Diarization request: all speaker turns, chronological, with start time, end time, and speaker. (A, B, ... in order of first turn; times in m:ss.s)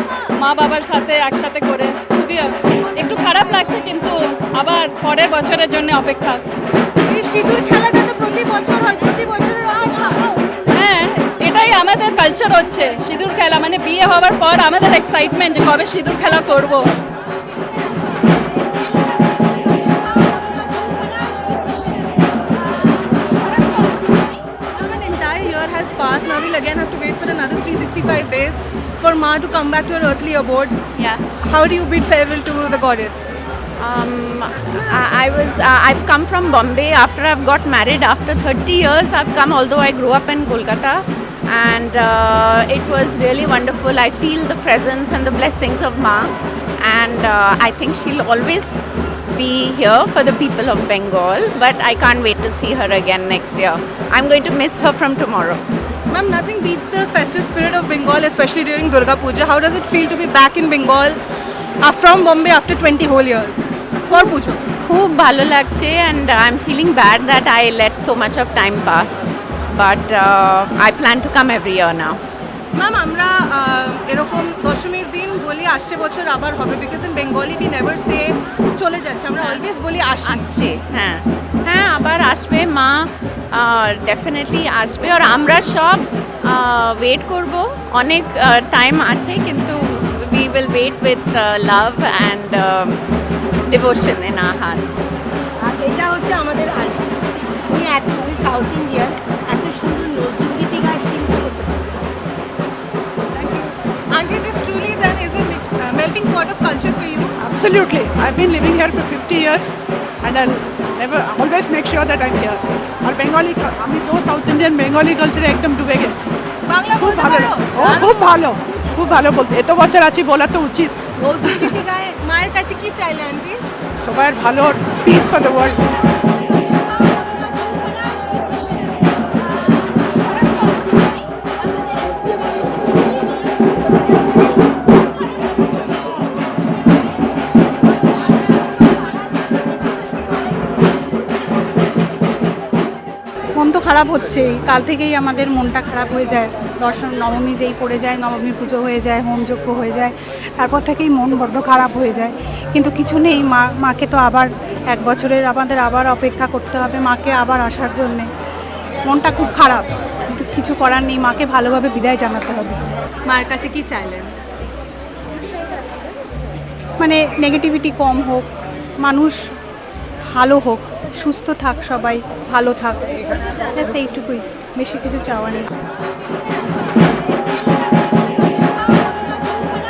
0:00.4-0:06.4 A
0:07.0-0:10.3 B
0:10.7-0:16.9 A
0:24.7-0:30.7 B
0:31.4-0:33.3 B
0:33.8-0:48.8 C
0:49.3-0:55.6 C
0:56.1-1:01.2 B
1:01.8-1:04.6 B
1:04.8-1:12.2 C
1:12.7-1:20.5 B
1:20.2-1:33.0 C
1:33.7-1:35.0 C
1:35.6-1:42.0 D
1:43.3-1:47.3 B
1:47.4-1:49.6 E
1:50.2-1:56.2 E
1:56.7-1:58.4 B
1:58.4-2:00.9 E
2:01.2-2:03.6 B
2:04.0-2:05.7 E
2:23.6-2:38.3 F
2:39.1-2:42.8 F
2:43.2-2:44.3 B
2:47.0-2:48.5 F
2:49.0-2:49.4 F
2:50.3-2:55.7 F